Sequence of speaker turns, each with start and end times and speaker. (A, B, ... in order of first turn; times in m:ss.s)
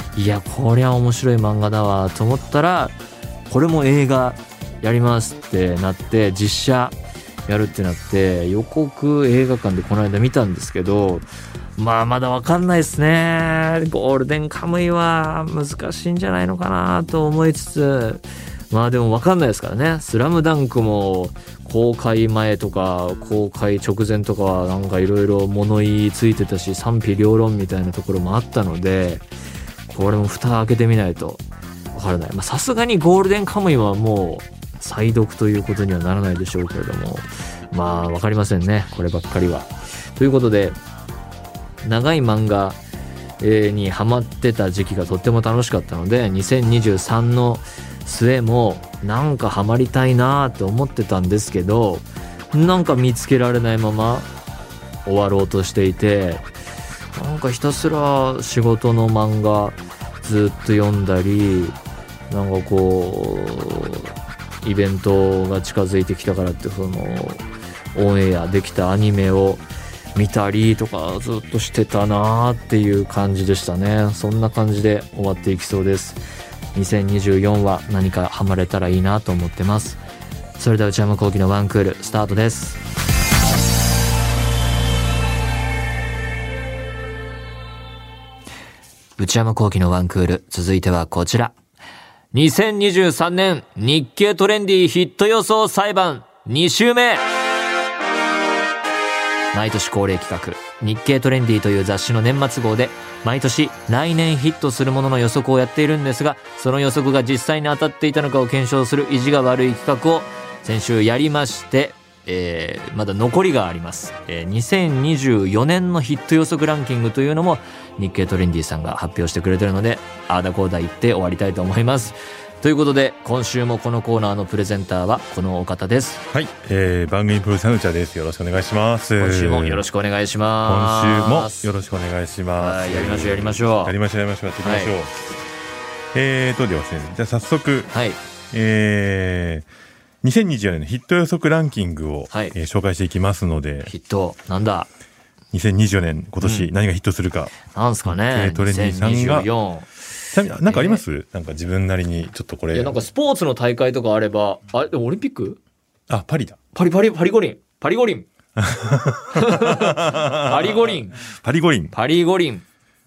0:00.2-0:03.0 A
0:03.5-0:07.0 A
0:07.5-0:29.3 A
0:29.9-0:31.4 A
0:31.9-0:40.8 A
0:41.8-0:42.8 A
0:43.4-0:54.3 A
0:55.0-0:56.4 A
0:57.1-1:01.8 A
1:02.3-1:09.6 A
1:10.2-1:16.2 A
1:16.7-1:20.0 A
1:20.6-1:22.8 A
1:29.2-1:31.5 A
1:32.3-1:37.2 A
1:39.5-2:06.2 A
2:06.3-2:09.8 B
2:09.2-2:11.7 A
2:10.6-2:15.2 B
2:12.6-2:13.9 A
2:14.6-2:14.9 A
2:16.1-2:17.9 B
2:17.9-2:18.2 A
2:18.5-2:19.6 B
2:20.2-2:23.9 B
2:22.3-2:22.6 A
2:23.8-2:24.9 A
2:25.5-2:29.5 B
2:26.4-2:26.7 A
2:27.7-2:29.9 A
2:30.3-2:33.0 B
2:30.6-2:31.0 A
2:32.7-2:35.6 A
2:36.1-2:36.6 B
2:36.7-2:38.3 A
2:38.6-2:41.9 B
2:39.3-2:41.2 A
2:41.9-2:42.6 A